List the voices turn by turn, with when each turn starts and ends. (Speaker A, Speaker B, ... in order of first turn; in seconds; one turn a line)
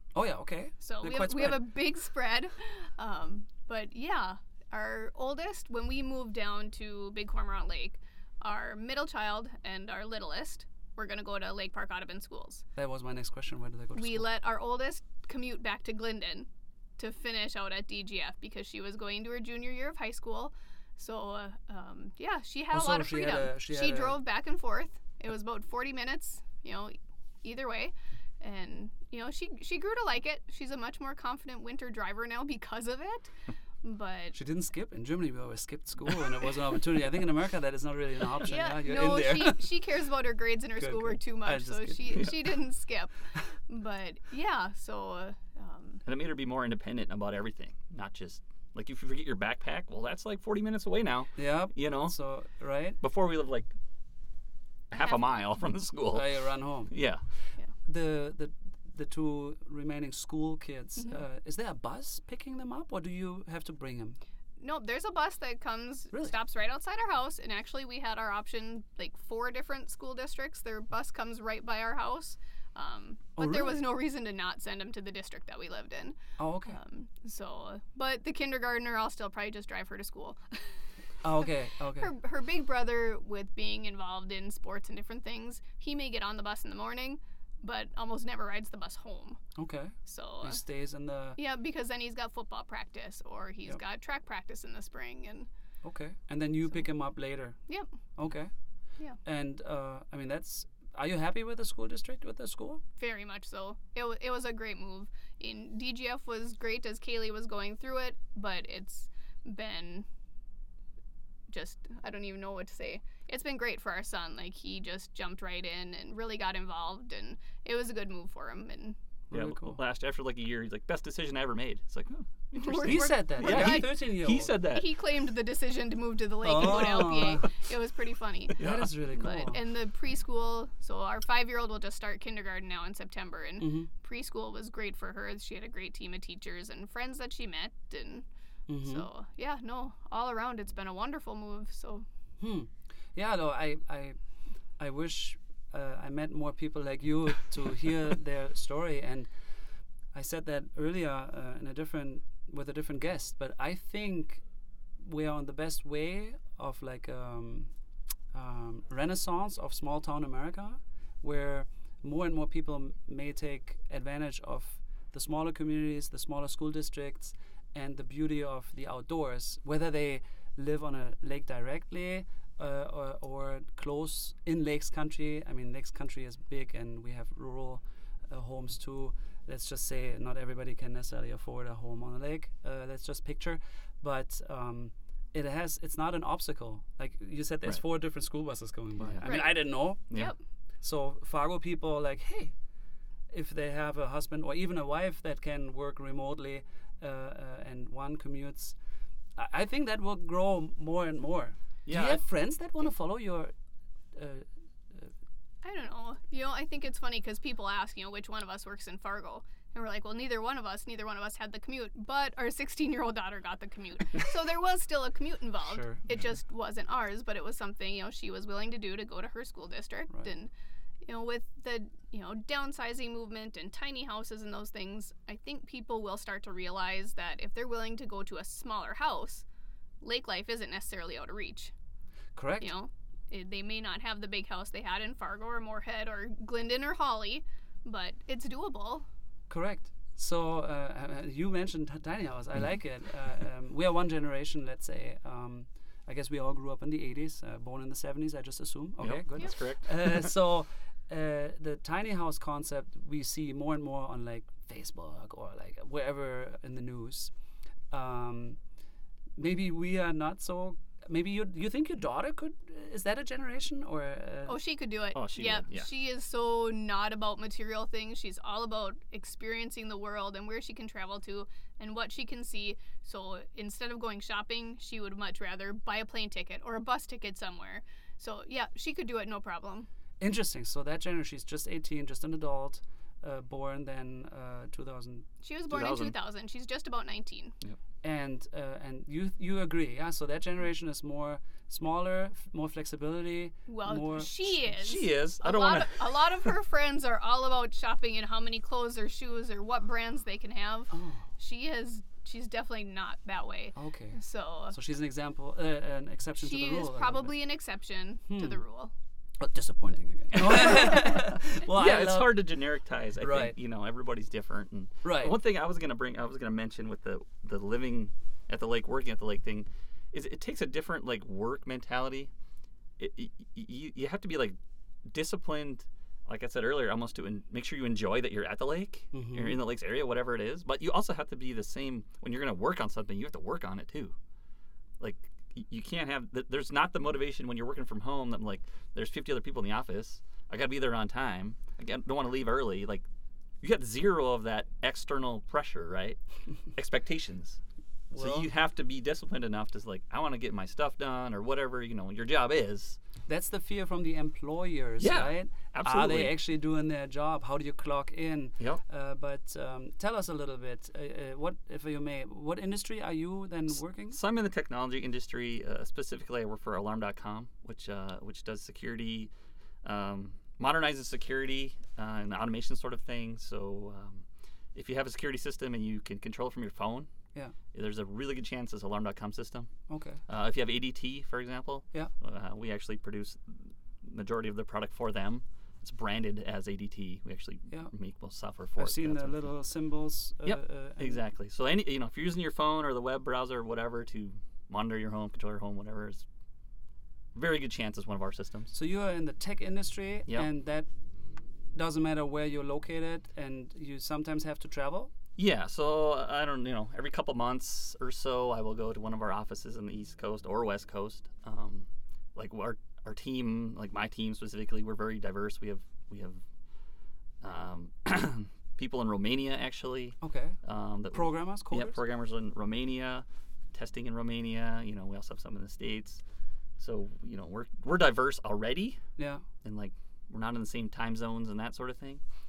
Speaker A: 0.1-1.6
Speaker B: 0.8-12.6
Speaker A: 12.8-14.2
Speaker B: 13.9-34.3
Speaker A: 22.7-24.2
Speaker A: 34.3-39.7
Speaker B: 38.4-46.0
Speaker A: 40.8-42.3
Speaker C: 46.0-52.2
Speaker A: 51.4-53.0
Speaker C: 53.0-53.7
Speaker C: 54.9-56.3
Speaker A: 56.1-64.2
Speaker C: 56.9-57.2
Speaker B: 64.6-80.9
Speaker A: 73.4-73.8
Speaker A: 76.4-76.8
Speaker A: 81.2-82.1
Speaker B: 82.0-89.4
Speaker A: 89.5-91.4
Speaker B: 90.0-90.6
Speaker B: 91.4-95.5
Speaker A: 95.8-97.6
Speaker A: 98.2-98.5
Speaker A: 99.2-102.8
Speaker B: 103.0-110.0
Speaker B: 111.5-119.0
Speaker A: 119.3-119.8
Speaker C: 119.3-124.9
Speaker B: 122.5-124.0
Speaker A: 122.8-124.5
Speaker B: 124.7-138.2
Speaker A: 126.4-127.5
Speaker A: 128.6-129.6
Speaker C: 128.6-128.9
Speaker A: 133.6-133.9
Speaker A: 138.7-139.1
Speaker B: 138.8-142.1
Speaker A: 142.4-144.2
Speaker A: 144.8-149.4
Speaker A: 150.1-154.4
Speaker A: 155.0-157.7
Speaker A: 158.3-190.2
Speaker C: 189.0-189.4
Speaker B: 189.2-190.4
Speaker C: 190.1-190.3
Speaker A: 190.8-192.5
Speaker A: 193.3-198.8
Speaker A: 199.3-203.5
Speaker C: 201.8-202.2
Speaker A: 204.1-205.1
Speaker B: 205.6-220.5
Speaker A: 215.6-216.0
Speaker B: 221.0-229.4
Speaker B: 230.0-231.7
Speaker A: 232.3-232.7
Speaker B: 232.6-239.1
Speaker A: 239.5-257.3
Speaker C: 249.0-250.3
Speaker A: 257.9-258.6
Speaker A: 259.4-264.6
Speaker B: 264.5-279.9
Speaker C: 265.1-265.9
Speaker A: 280.2-285.2
Speaker B: 285.4-287.5
Speaker C: 285.7-286.1
Speaker A: 288.0-294.3
Speaker B: 293.7-304.8
Speaker C: 294.7-296.5
Speaker A: 300.9-301.2
Speaker A: 303.7-304.2
Speaker A: 304.7-307.3
Speaker B: 306.4-308.9
Speaker A: 308.3-308.6
Speaker A: 309.4-312.5
Speaker C: 310.3-322.3
Speaker B: 310.6-310.9
Speaker A: 313.2-313.5
Speaker A: 315.0-315.4
Speaker C: 323.0-324.6
Speaker C: 325.1-334.1
Speaker A: 329.1-329.6
Speaker C: 335.0-343.1
Speaker C: 343.6-346.2
Speaker C: 346.7-347.6
Speaker A: 348.1-348.5
Speaker C: 348.1-353.0
Speaker A: 353.3-364.2
Speaker C: 355.0-356.4
Speaker C: 364.1-369.3
Speaker C: 369.8-377.1
Speaker C: 377.7-379.7
Speaker A: 379.9-380.2
Speaker C: 380.3-389.4
Speaker A: 388.8-391.2
Speaker C: 390.4-396.2
Speaker C: 397.3-398.7
Speaker A: 398.7-400.9
Speaker A: 401.7-405.1
Speaker C: 405.4-416.4
Speaker C: 417.4-426.2
Speaker A: 420.2-420.6
Speaker A: 421.1-422.0
Speaker C: 426.8-429.0
Speaker A: 429.2-429.4
Speaker C: 429.6-432.2